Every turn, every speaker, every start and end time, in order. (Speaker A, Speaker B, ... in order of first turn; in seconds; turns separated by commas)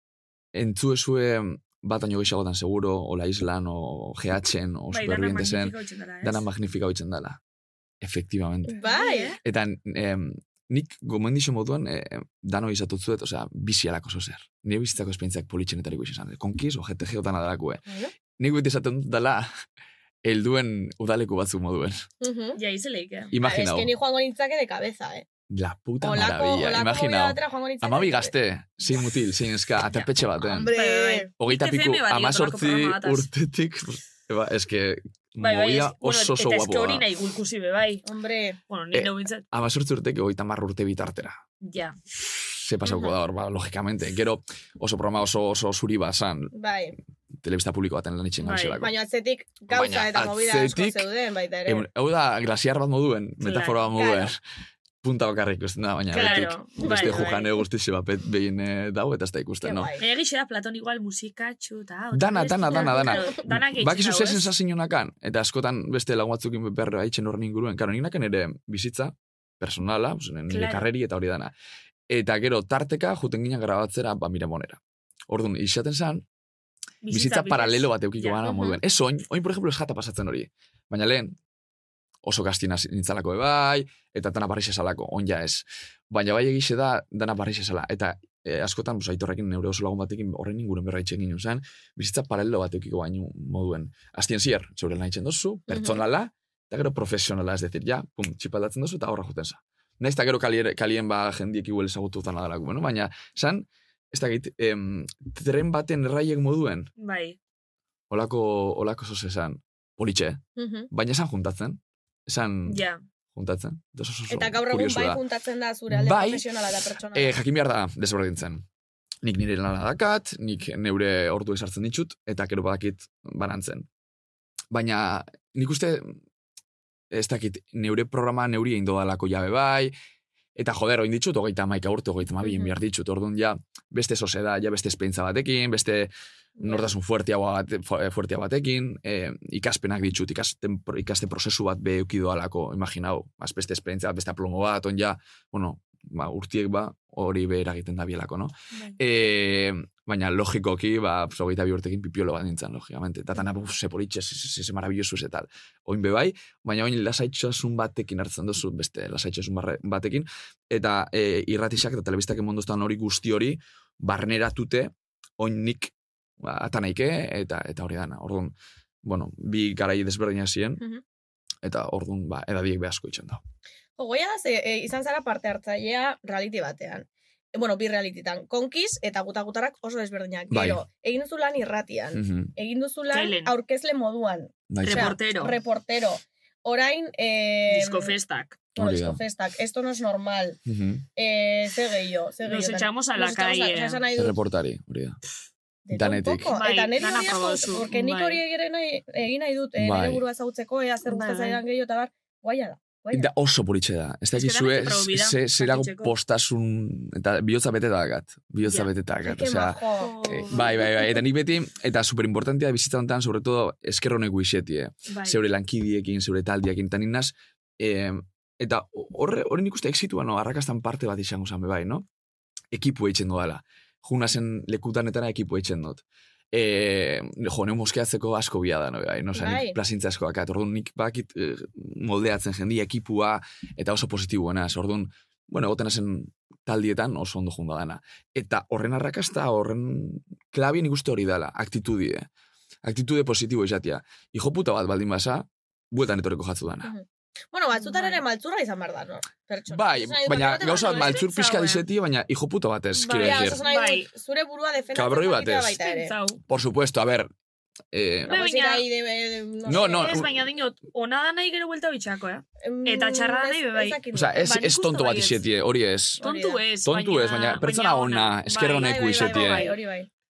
Speaker A: 0.5-7.4, Speaker B: 4.9-6.4, Speaker A: 8.0-8.8, Speaker C: 8.7-9.4, Speaker B: 8.8-9.4, Speaker A: 9.4-17.8, Speaker A: 18.4-19.5, Speaker A: 20.2-22.1, Speaker C: 22.2-22.6, Speaker B: 22.6-23.3, Speaker A: 23.3-23.9, Speaker C: 23.4-25.3, Speaker A: 25.5-30.7, Speaker C: 26.0-28.3, Speaker C: 30.5-31.3, Speaker B: 30.7-33.3, Speaker A: 31.4-37.1, Speaker B: 35.4-38.0, Speaker C: 38.0-38.6, Speaker B: 38.7-39.5, Speaker A: 38.9-41.4, Speaker B: 41.6-42.0, Speaker A: 42.2-46.5, Speaker C: 42.9-43.1, Speaker C: 46.5-47.0, Speaker A: 47.4-48.9, Speaker B: 48.4-48.8, Speaker C: 48.8-51.9, Speaker A: 49.7-51.1, Speaker A: 51.6-54.4, Speaker B: 53.4-53.9, Speaker C: 54.0-54.3, Speaker A: 55.0-59.9, Speaker B: 56.1-57.5, Speaker C: 56.2-57.0, Speaker C: 59.6-60.0, Speaker B: 60.0-64.5, Speaker A: 62.1-71.5, Speaker C: 62.7-63.2, Speaker B: 70.5-70.9, Speaker A: 72.1-76.2, Speaker B: 77.0-78.7, Speaker A: 77.1-81.4, Speaker A: 82.2-106.9, Speaker C: 95.7-96.0, Speaker B: 107.0-107.4, Speaker A: 108.1-112.8, Speaker C: 110.6-110.9, Speaker B: 112.7-113.0, Speaker A: 113.3-115.2, Speaker C: 114.3-117.3, Speaker A: 115.9-116.4, Speaker A: 117.1-118.7, Speaker A: 119.2-123.9, Speaker A: 124.7-126.2, Speaker A: 127.1-129.9, Speaker A: 130.6-170.8, Speaker C: 132.4-132.7, Speaker C: 136.6-136.9, Speaker B: 148.7-149.0, Speaker A: 171.6-173.4, Speaker C: 174.0-188.1, Speaker A: 180.5-180.8, Speaker A: 182.1-182.5, Speaker B: 183.1-183.6, Speaker A: 184.7-185.2, Speaker B: 184.8-185.6, Speaker B: 187.7-188.6, Speaker C: 188.8-190.6, Speaker A: 188.8-189.2, Speaker A: 190.7-191.1, Speaker C: 191.2-194.4, Speaker B: 192.4-194.0, Speaker A: 194.2-195.2, Speaker C: 195.9-203.3, Speaker A: 195.9-196.5, Speaker B: 196.5-198.4, Speaker A: 199.8-200.2, Speaker B: 201.1-201.6, Speaker A: 203.1-222.1, Speaker B: 204.4-206.1, Speaker B: 208.7-208.9, Speaker C: 209.2-210.1, Speaker B: 210.0-211.2, Speaker B: 215.1-215.4, Speaker A: 222.7-242.3, Speaker C: 229.3-229.8, Speaker A: 242.8-246.9, Speaker C: 246.8-251.2, Speaker B: 247.7-248.2, Speaker A: 249.7-253.6, Speaker B: 250.7-251.8, Speaker B: 252.9-254.1, Speaker C: 253.2-256.1, Speaker A: 254.9-255.8, Speaker B: 255.8-256.4, Speaker A: 256.5-257.3, Speaker A: 257.9-258.4, Speaker B: 258.3-258.9, Speaker C: 258.3-260.2, Speaker A: 259.7-260.4, Speaker B: 259.9-265.4, Speaker C: 262.6-264.5, Speaker A: 264.1-266.2, Speaker C: 266.2-266.6, Speaker B: 266.2-269.8, Speaker A: 266.8-269.7, Speaker C: 268.8-270.1